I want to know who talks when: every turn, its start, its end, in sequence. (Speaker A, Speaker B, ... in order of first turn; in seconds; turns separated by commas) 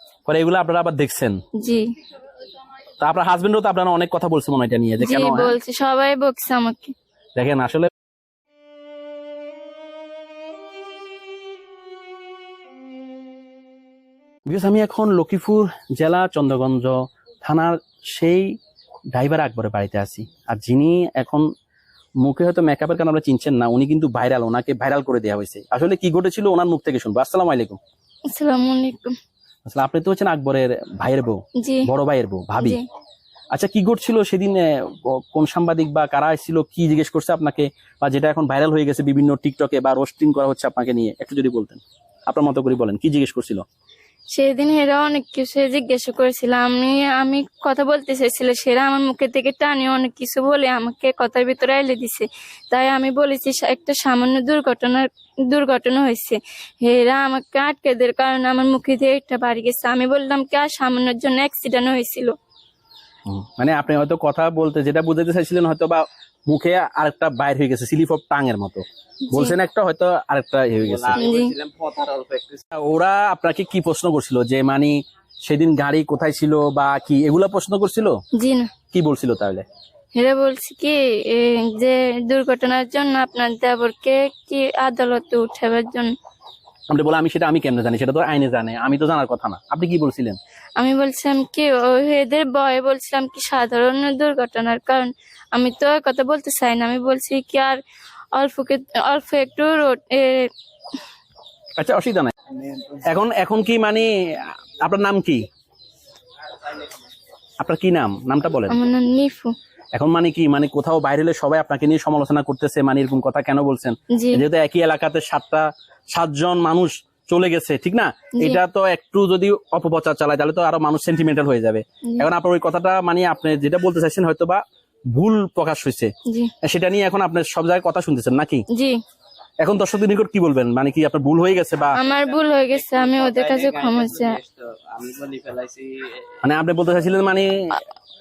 Speaker A: 0.3-1.4, Speaker B: 1.6-1.9, Speaker A: 3.0-5.6, Speaker B: 5.0-6.9, Speaker A: 7.3-7.9, Speaker A: 14.5-18.5, Speaker A: 19.1-21.4, Speaker A: 22.2-27.8, Speaker B: 28.3-29.1, Speaker A: 29.6-32.8, Speaker B: 31.6-31.9, Speaker A: 33.5-43.6, Speaker B: 44.3-62.3, Speaker A: 63.3-71.2, Speaker B: 69.3-69.5, Speaker C: 70.8-72.6, Speaker B: 71.2-71.5, Speaker A: 72.7-78.1, Speaker B: 78.3-78.7, Speaker A: 78.9-79.6, Speaker B: 80.1-86.1, Speaker A: 86.9-90.4, Speaker B: 90.8-97.8, Speaker B: 98.3-100.5, Speaker A: 101.8-102.3, Speaker C: 102.5-103.0, Speaker A: 103.1-105.5, Speaker A: 107.6-108.8, Speaker B: 108.7-109.5, Speaker A: 109.9-126.1, Speaker B: 114.1-114.4, Speaker B: 118.3-118.6, Speaker B: 126.3-126.5, Speaker A: 126.6-128.6, Speaker B: 128.7-129.0, Speaker A: 129.6-131.9, Speaker B: 131.9-134.4, Speaker C: 132.1-136.3, Speaker A: 136.4-137.8